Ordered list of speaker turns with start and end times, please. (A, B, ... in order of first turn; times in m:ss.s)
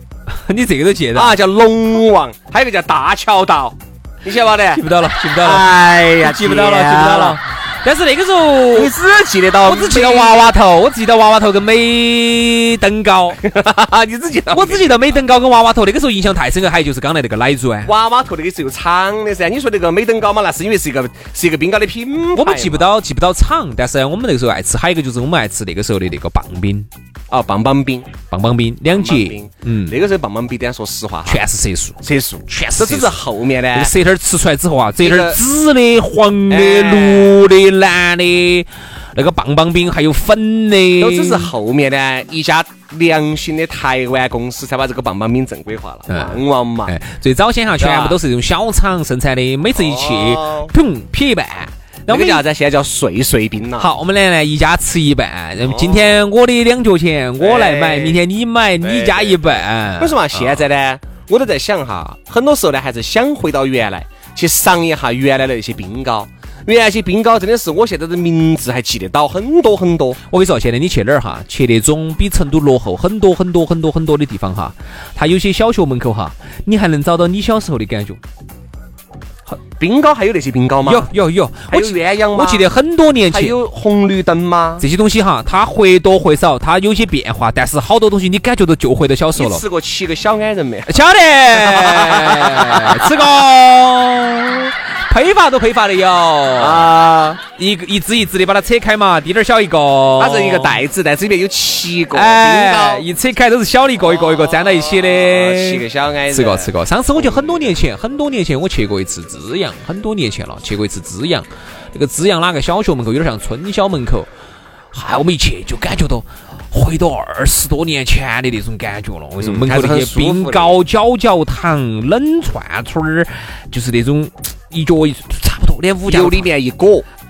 0:00.3-0:01.4 A
0:01.1-0:04.8 B
0:04.7-0:08.9 A
0:05.3-0:07.4 B
0:08.7-0:10.4 B
0:09.6-0:13.4 A
0:13.4-0:15.2 B
0:14.5-0:17.9 A
0:17.8-0:22.9 B
0:22.3-0:26.9 A
0:27.3-0:28.1 B
0:28.3-0:30.0 A
0:28.8-0:31.4 B
0:31.2-0:33.2 A
0:32.0-0:33.9 B
0:33.7-0:41.5 A
0:35.0-0:35.4 B
0:36.5-0:37.4 B
0:41.0-0:46.9 B
0:46.1-0:52.4 A
0:47.8-0:48.2 B
0:49.7-0:50.7 B
0:52.1-0:53.9 B
0:53.8-1:00.6 A
0:55.6-0:56.2 B
0:57.4-0:58.2 B
0:58.8-1:10.2 B
1:10.3-1:18.2 A
1:19.8-1:21.1 B
1:20.8-1:23.6 A
1:21.7-1:22.7 B
1:23.3-1:24.8 B
1:24.8-1:29.6 A
1:29.3-1:30.9 B
1:30.9-1:36.9 A
1:31.5-1:33.0 B
1:36.5-1:37.4 B
1:37.6-1:40.8 A
1:40.2-1:43.1 B
1:42.1-1:54.3 A
1:44.0-1:47.8 B
1:54.9-2:06.5 A
1:59.4-2:00.8 B
2:06.1-2:07.0 B